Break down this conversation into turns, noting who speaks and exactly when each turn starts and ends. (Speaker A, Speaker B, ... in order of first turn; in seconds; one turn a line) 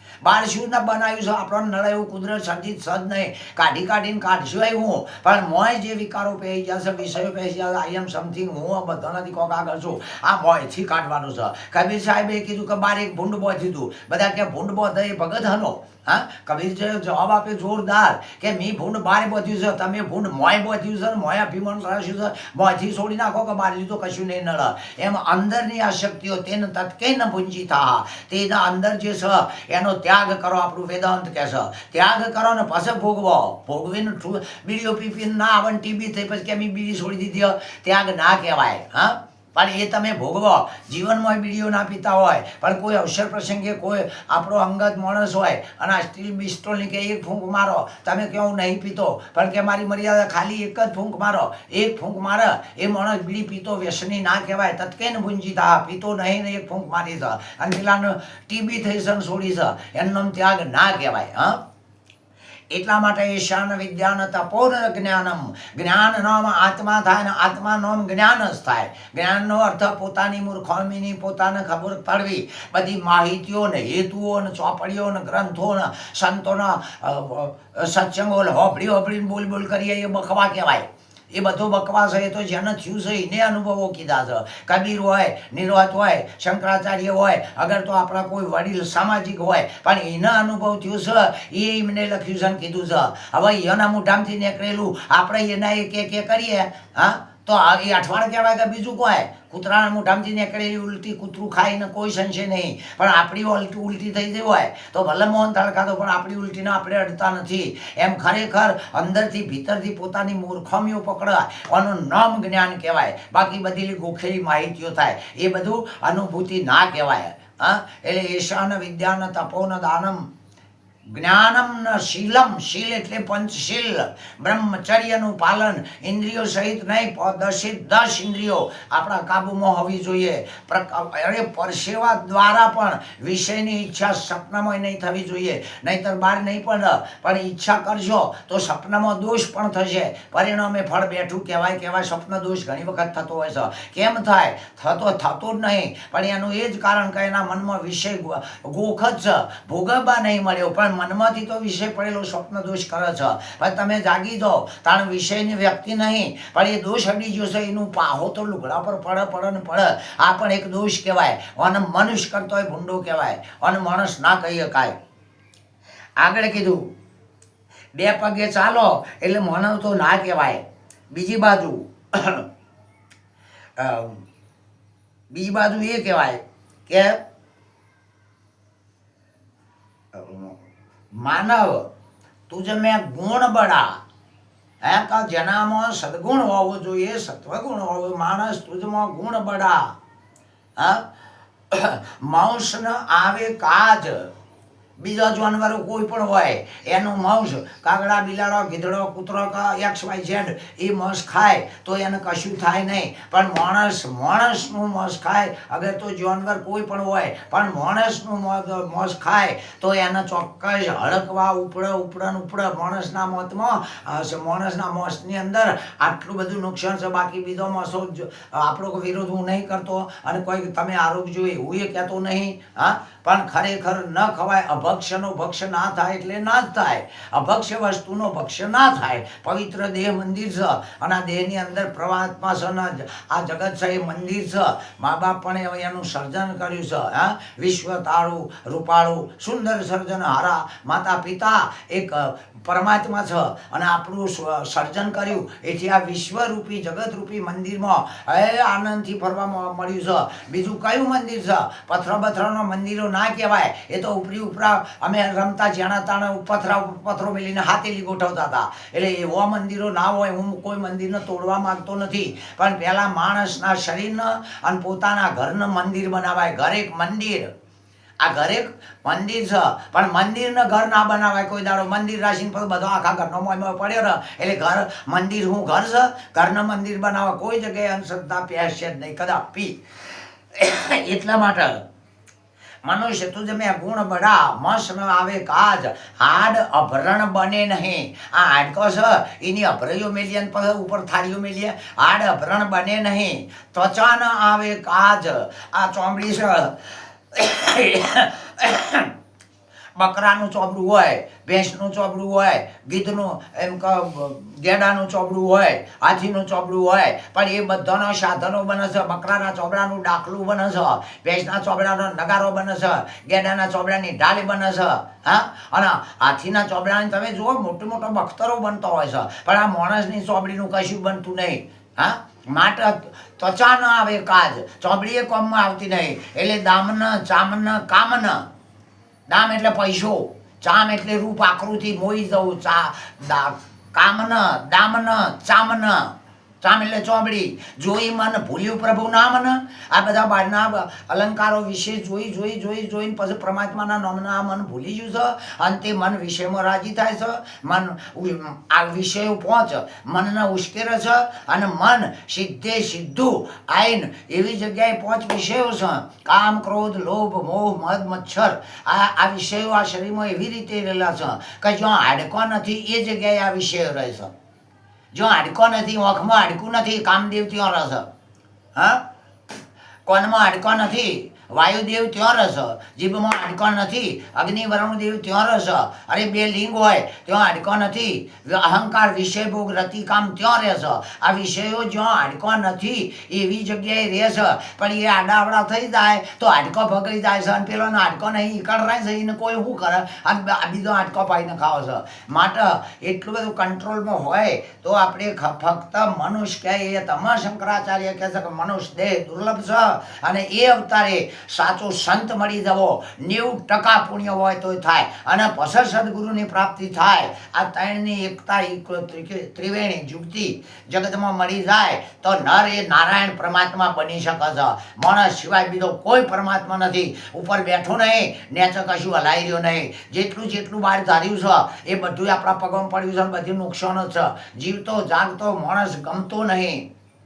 Speaker A: 0.2-61.6
Speaker A: 62.7-120.3
Speaker A: 121.1-164.9
Speaker A: 166.2-166.9
Speaker A: 167.9-172.4
Speaker A: 173.8-174.2
Speaker A: 175.3-177.2
Speaker A: 180.1-180.6
Speaker A: 181.1-181.9
Speaker A: 182.5-184.0
Speaker A: 184.8-189.9
Speaker A: 190.8-191.0
Speaker A: 191.7-194.3
Speaker A: 195.0-267.5
Speaker A: 268.2-279.8
Speaker A: 280.5-281.8
Speaker A: 282.9-299.1
Speaker A: 299.9-328.4
Speaker A: 329.3-364.3
Speaker A: 365.1-368.1
Speaker A: 368.7-369.0
Speaker A: 370.1-426.9